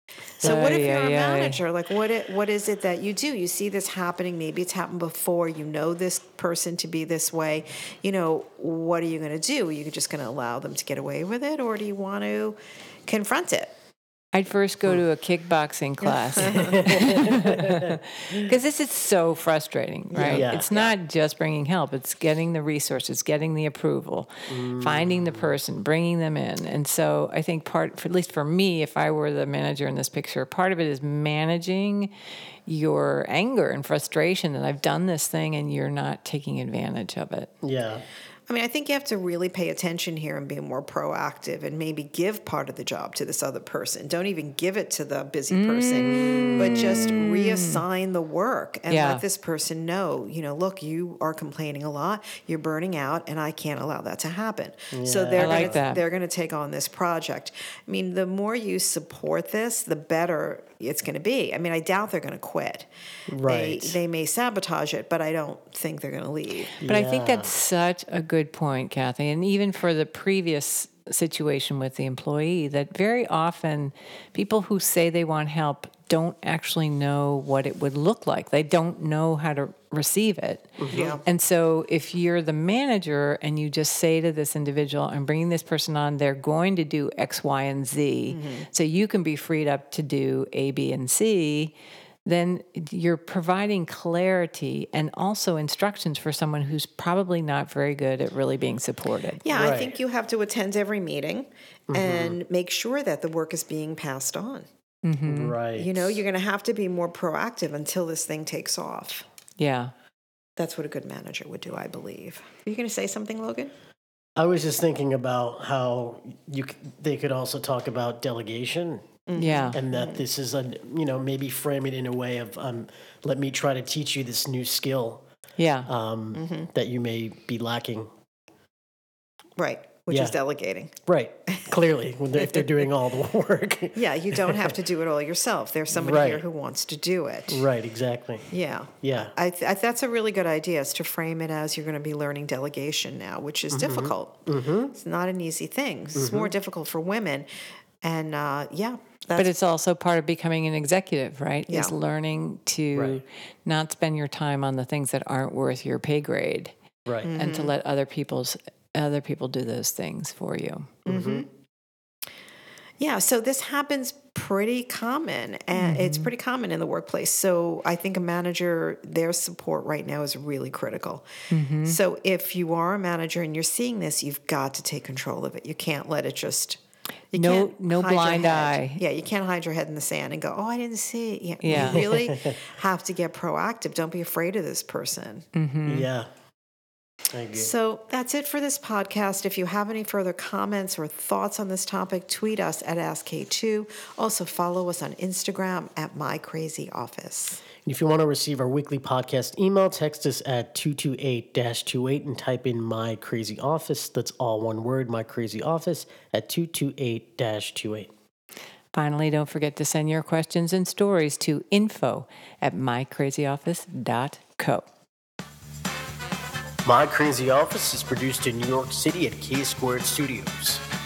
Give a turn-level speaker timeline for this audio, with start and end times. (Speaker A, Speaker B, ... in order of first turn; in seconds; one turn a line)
Speaker A: 0.4-13.7
Speaker B: 0.4-1.6
Speaker B: 14.3-32.1
Speaker A: 16.1-16.8
Speaker C: 16.5-17.8
Speaker A: 20.1-20.9
Speaker C: 20.2-20.7
Speaker C: 24.5-25.5
Speaker B: 32.7-37.5
Speaker C: 37.6-38.0
Speaker A: 38.5-62.9
Speaker B: 45.5-47.8
Speaker B: 48.9-49.2
Speaker C: 54.9-55.8
Speaker B: 55.3-56.0
Speaker C: 63.3-64.0
Speaker A: 63.4-66.8
Speaker C: 66.8-67.5
Speaker B: 66.8-91.7
Speaker C: 80.8-81.2
Speaker A: 80.9-81.2
Speaker A: 88.3-88.7
Speaker B: 92.2-99.5
Speaker A: 99.4-104.7
Speaker C: 99.5-100.0
Speaker C: 101.9-102.4
Speaker B: 105.0-105.6
Speaker C: 105.3-106.2
Speaker A: 105.7-109.3
Speaker B: 109.6-109.9
Speaker A: 110.6-113.7
Speaker C: 114.4-119.2
Speaker A: 119.3-120.2
Speaker B: 119.4-119.8
Speaker C: 119.7-125.2
Speaker B: 125.6-125.9
Speaker C: 125.9-128.1
Speaker A: 126.3-126.7
Speaker A: 129.6-130.9
Speaker C: 131.1-134.7
Speaker A: 132.4-132.7
Speaker A: 133.9-137.7
Speaker C: 135.9-136.4
Speaker C: 137.5-138.5
Speaker A: 138.5-147.5
Speaker C: 139.0-139.3
Speaker C: 143.7-144.9
Speaker C: 146.2-146.5
Speaker A: 148.0-149.5
Speaker B: 149.4-156.7
Speaker A: 151.7-152.0
Speaker C: 152.9-153.2
Speaker A: 157.2-157.8
Speaker B: 157.3-160.9
Speaker C: 161.1-161.4
Speaker A: 161.1-161.5
Speaker A: 163.0-171.3
Speaker B: 165.7-166.3
Speaker B: 171.5-172.0
Speaker A: 171.8-176.8
Speaker A: 177.3-185.4
Speaker B: 177.3-179.0
Speaker B: 181.6-182.1
Speaker C: 181.7-182.3
Speaker B: 185.5-186.1
Speaker C: 185.9-186.3
Speaker C: 187.3-187.7
Speaker A: 187.5-197.6
Speaker C: 197.8-208.1
Speaker B: 208.9-214.9
Speaker C: 216.8-220.8